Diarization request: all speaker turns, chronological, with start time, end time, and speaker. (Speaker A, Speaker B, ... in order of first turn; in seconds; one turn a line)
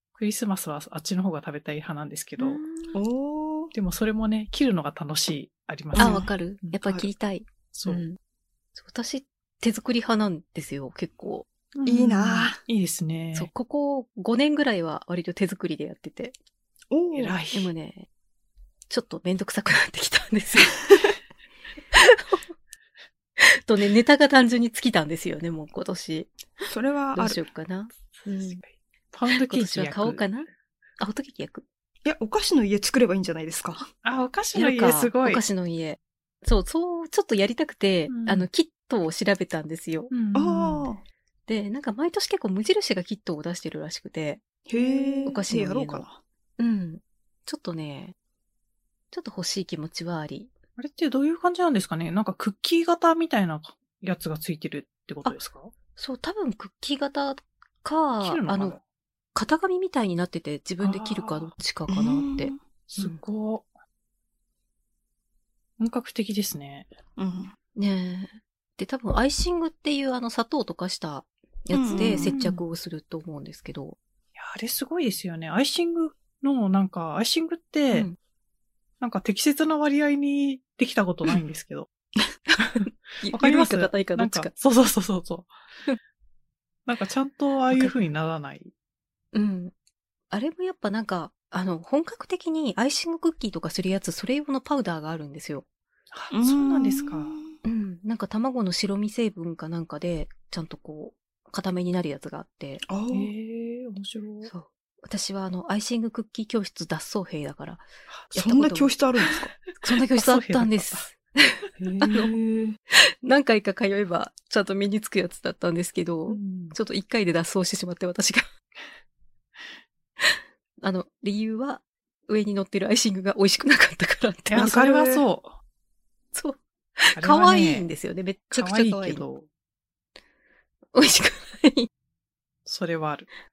Speaker A: 0.2-2.6
Speaker B: 2.4-3.0
Speaker C: 2.9-3.7
Speaker A: 3.7-6.8
Speaker C: 6.0-6.3
Speaker B: 6.0-8.2
Speaker A: 7.7-8.1
Speaker B: 8.8-11.5
Speaker A: 11.8-13.5
Speaker C: 11.9-12.6
Speaker B: 13.3-16.3
Speaker C: 16.9-17.4
Speaker A: 17.1-17.7
Speaker B: 17.5-18.1
Speaker B: 18.9-20.9
Speaker B: 21.9-22.4
Speaker B: 23.4-26.3
Speaker C: 26.7-27.4
Speaker B: 27.1-28.6
Speaker A: 28.2-30.2
Speaker B: 29.3-30.5
Speaker B: 31.0-31.6
Speaker C: 32.0-33.9
Speaker A: 34.0-35.4
Speaker B: 34.5-40.1
Speaker A: 38.1-38.5
Speaker A: 40.1-40.9
Speaker C: 40.3-41.0
Speaker B: 41.5-46.0
Speaker C: 44.7-46.2
Speaker B: 46.6-48.1
Speaker B: 49.1-50.5
Speaker A: 50.8-55.7
Speaker B: 56.0-58.8
Speaker A: 58.2-58.8
Speaker B: 59.4-63.2
Speaker A: 60.8-61.5
Speaker C: 61.9-62.6
Speaker A: 62.9-63.7
Speaker A: 65.8-66.9
Speaker C: 67.2-67.5
Speaker B: 67.8-74.0
Speaker C: 71.7-72.3
Speaker A: 71.9-72.6
Speaker A: 74.4-78.1
Speaker A: 79.0-81.9
Speaker B: 82.5-84.5
Speaker A: 82.7-85.5
Speaker A: 86.9-88.7
Speaker B: 89.3-89.7
Speaker B: 90.3-95.7
Speaker A: 96.1-97.4
Speaker C: 96.3-97.6
Speaker B: 97.6-102.8
Speaker C: 102.9-103.3
Speaker A: 103.1-104.5
Speaker B: 104.4-109.0
Speaker C: 108.3-109.6
Speaker B: 109.8-112.3
Speaker A: 109.9-111.1
Speaker A: 111.8-112.3
Speaker C: 112.1-112.8
Speaker B: 112.9-118.5
Speaker A: 116.3-116.8
Speaker B: 120.2-124.8
Speaker A: 124.5-125.5
Speaker C: 124.6-125.2
Speaker B: 126.3-129.2
Speaker A: 127.2-127.9
Speaker A: 128.5-129.5
Speaker B: 130.9-131.9
Speaker A: 132.7-133.3